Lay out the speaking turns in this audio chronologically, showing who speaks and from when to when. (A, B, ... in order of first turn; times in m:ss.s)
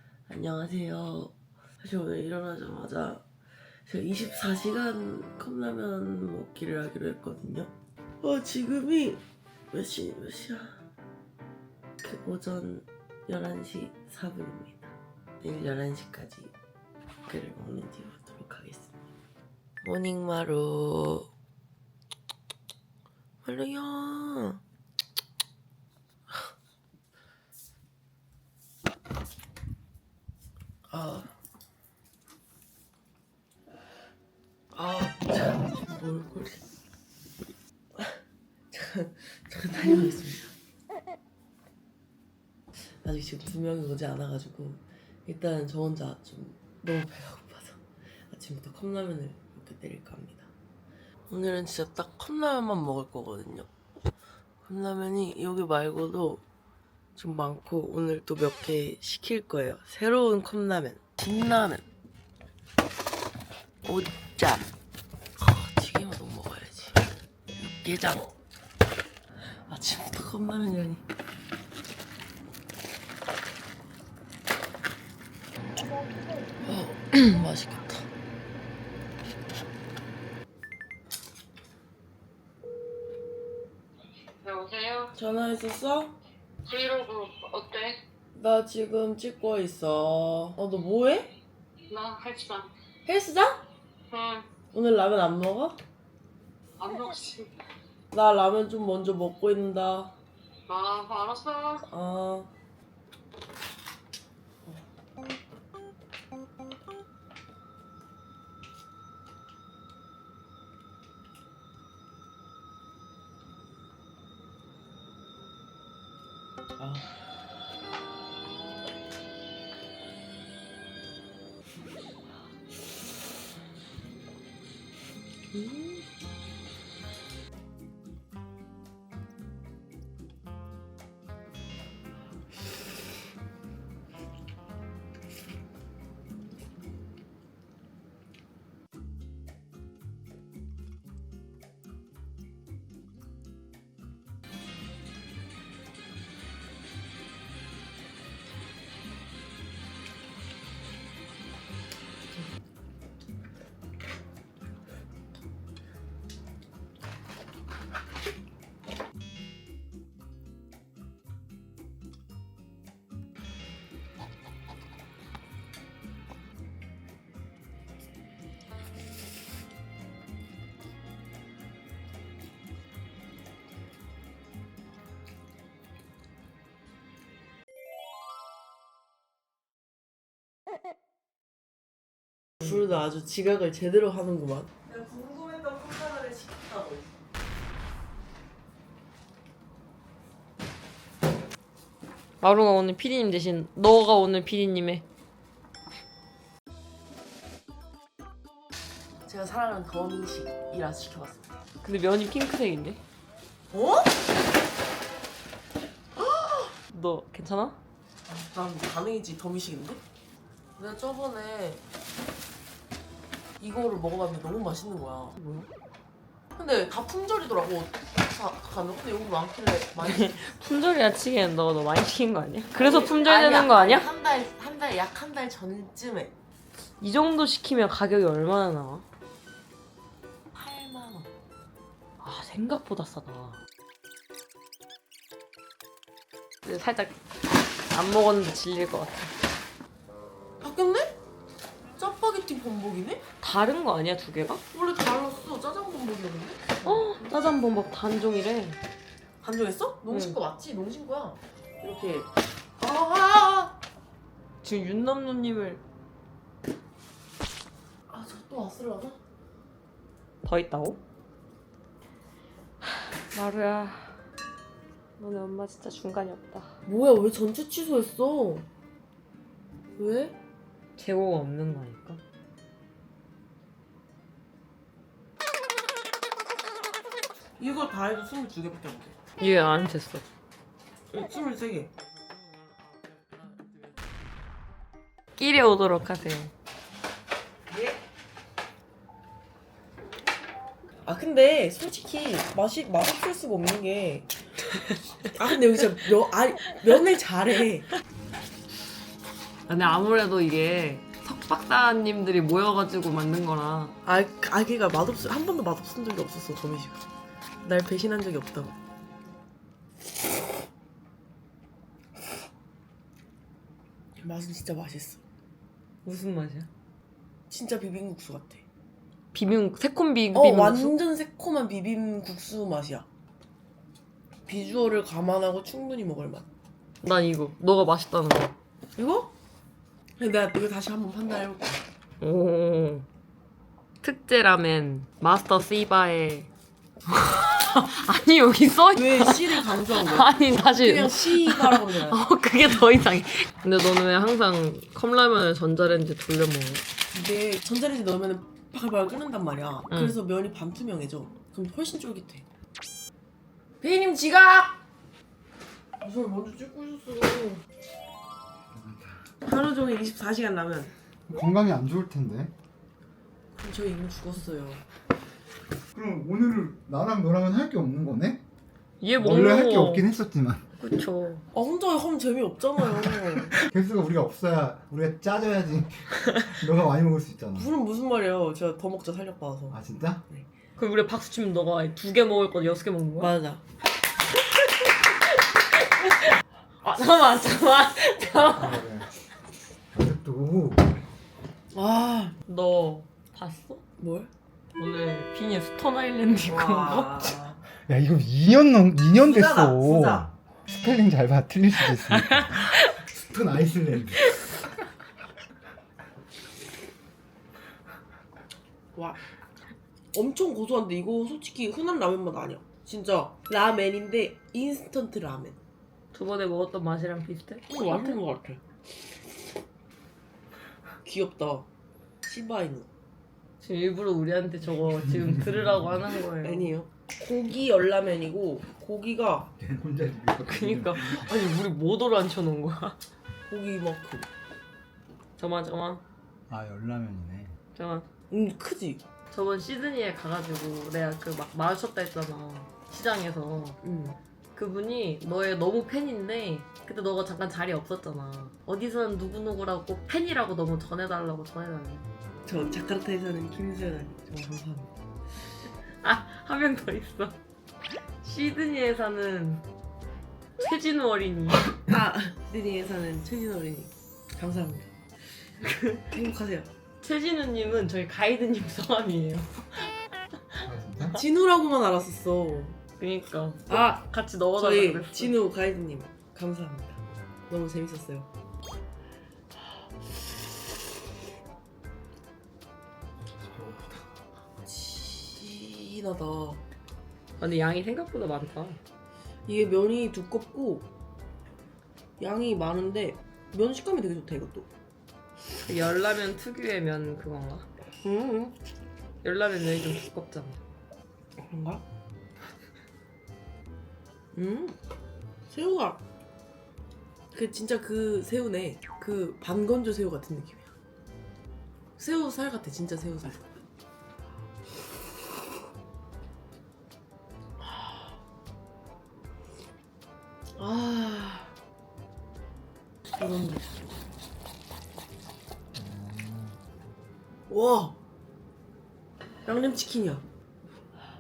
0:00.3-0:03.2 A
0:03.9-0:07.7 A
0:08.2-0:10.8 A
0:12.0-0:16.5 A
0:17.3-0:18.9 A
0:19.8-0:21.3 A
0:23.4-0:24.6 A
0:30.9-0:31.3 A
0:34.7-0:36.6 A
0:38.7-0:40.5 A
0:42.8-0:50.5 A
0:51.3-0:53.7 A
0:54.6-0:56.4 A
0:57.2-1:01.9 A
1:03.8-1:04.7 A
1:05.4-1:07.0 A
1:07.6-1:08.4 A
1:09.5-1:11.0 A
1:16.6-1:18.1 A
1:24.4-1:25.1 B
1:25.2-1:26.2 A
1:26.7-1:28.0 B
1:28.4-1:31.3 A
1:31.9-1:32.7 B
1:33.0-1:33.6 A
1:34.1-1:34.4 B
1:34.7-1:35.8 A
1:36.8-1:37.5 B
1:38.1-1:40.2 A
1:40.7-1:41.8 B
1:41.9-1:42.5 A
1:56.8-1:57.1 A
2:05.5-2:06.0 A
3:02.6-3:07.1 A
3:12.4-3:15.0 C
3:19.3-3:21.5 A
3:21.8-3:23.0 C
3:23.7-3:24.1 A
3:26.2-3:26.7 A
3:26.9-3:27.8 C
3:28.3-3:30.0 A
3:30.8-3:31.8 A
3:33.6-3:35.4 A
3:35.4-3:35.7 C
3:36.6-3:40.5 A
3:40.0-3:44.1 C
3:42.8-3:46.3 A
3:47.0-3:49.0 C
3:50.5-3:51.3 A
3:52.2-3:53.6 C
3:56.6-3:57.2 C
3:57.9-3:59.3 C
4:00.6-4:01.2 A
4:02.0-4:03.2 A
4:03.4-4:04.6 C
4:04.7-4:07.2 A
4:06.8-4:08.8 C
4:09.4-4:13.8 A
4:10.1-4:10.4 C
4:14.6-4:15.8 C
4:18.1-4:19.2 A
4:20.4-4:21.0 C
4:22.8-4:24.2 C
4:25.2-4:26.8 C
4:26.9-4:28.7 A
4:30.0-4:30.4 A
4:31.0-4:32.2 C
4:37.6-4:39.1 A
4:39.4-4:40.2 C
4:41.1-4:41.9 A
4:45.4-4:46.5 C
4:47.7-4:48.0 A
4:51.0-4:54.3 A
4:55.3-4:57.9 A
4:59.7-5:04.0 C
5:04.1-5:07.0 A
5:07.6-5:08.8 A
5:14.2-5:15.2 A
5:16.0-5:16.7 C
5:17.5-5:18.6 A
5:19.3-5:21.0 C
5:20.3-5:23.1 A
5:24.5-5:26.5 A
5:27.0-5:28.6 C
5:29.0-5:29.3 A
5:30.2-5:31.8 A
5:32.2-5:33.1 C
5:34.0-5:36.5 C
5:37.1-5:46.8 C
5:38.9-5:42.2 A
5:47.1-5:52.4 A
5:49.9-5:50.2 C
5:53.8-5:54.8 A
5:56.0-5:57.6 A
5:58.7-5:59.3 D
5:59.4-6:00.9 A
6:01.3-6:02.5 D
6:03.5-6:04.8 A
6:05.9-6:08.4 D
6:09.0-6:10.1 C
6:09.2-6:10.6 D
6:10.8-6:11.4 C
6:11.5-6:13.6 A
6:13.6-6:17.7 D
6:17.6-6:19.8 A
6:19.7-6:20.2 D
6:20.8-6:23.3 C
6:23.2-6:23.6 A
6:25.9-6:26.2 C
6:26.8-6:28.8 C
6:28.5-6:29.1 D
6:29.9-6:30.9 D
6:31.7-6:32.4 A
6:32.5-6:33.8 C
6:34.0-6:34.3 A
6:34.8-6:37.3 C
6:36.5-6:37.6 A
6:37.9-6:44.4 D
6:39.2-6:40.3 A
6:42.1-6:42.9 C
6:48.9-6:49.2 A
6:50.1-6:55.6 A
6:56.1-6:58.2 C
6:57.7-6:58.6 A
7:01.0-7:01.7 A
7:02.2-7:02.9 A
7:03.6-7:06.7 C
7:06.4-7:09.5 A
7:09.6-7:11.3 D
7:10.4-7:13.0 C
7:13.5-7:14.3 A
7:15.4-7:16.0 C
7:16.5-7:17.6 D
7:17.8-7:18.1 C
7:18.3-7:19.0 A
7:19.3-7:23.8 C
7:23.8-7:24.2 A
7:24.6-7:32.1 C
7:32.4-7:34.9 A
7:36.0-7:37.4 C
7:38.2-7:39.6 C
7:40.6-7:41.8 C
7:41.9-7:44.9 A
7:45.6-7:46.0 C
7:46.1-7:46.7 A
7:47.0-7:49.9 C
7:50.6-7:51.2 D
7:51.1-7:52.8 A
7:53.0-7:55.4 C
7:53.7-7:54.0 A
7:54.6-7:58.3 A
8:03.4-8:04.1 D
8:04.6-8:06.6 A
8:07.4-8:08.8 C
8:09.5-8:10.9 A
8:12.2-8:14.7 A
8:15.6-8:17.7 C
8:18.0-8:18.6 A
8:19.2-8:20.6 C
8:21.4-8:21.8 A
8:24.3-8:24.8 A
8:25.5-8:26.0 A
8:27.3-8:30.7 A
8:32.0-8:33.5 A
8:40.6-8:41.5 A
8:43.2-8:43.8 A
8:45.7-8:46.6 D
8:47.5-8:48.0 A
8:49.5-8:50.2 A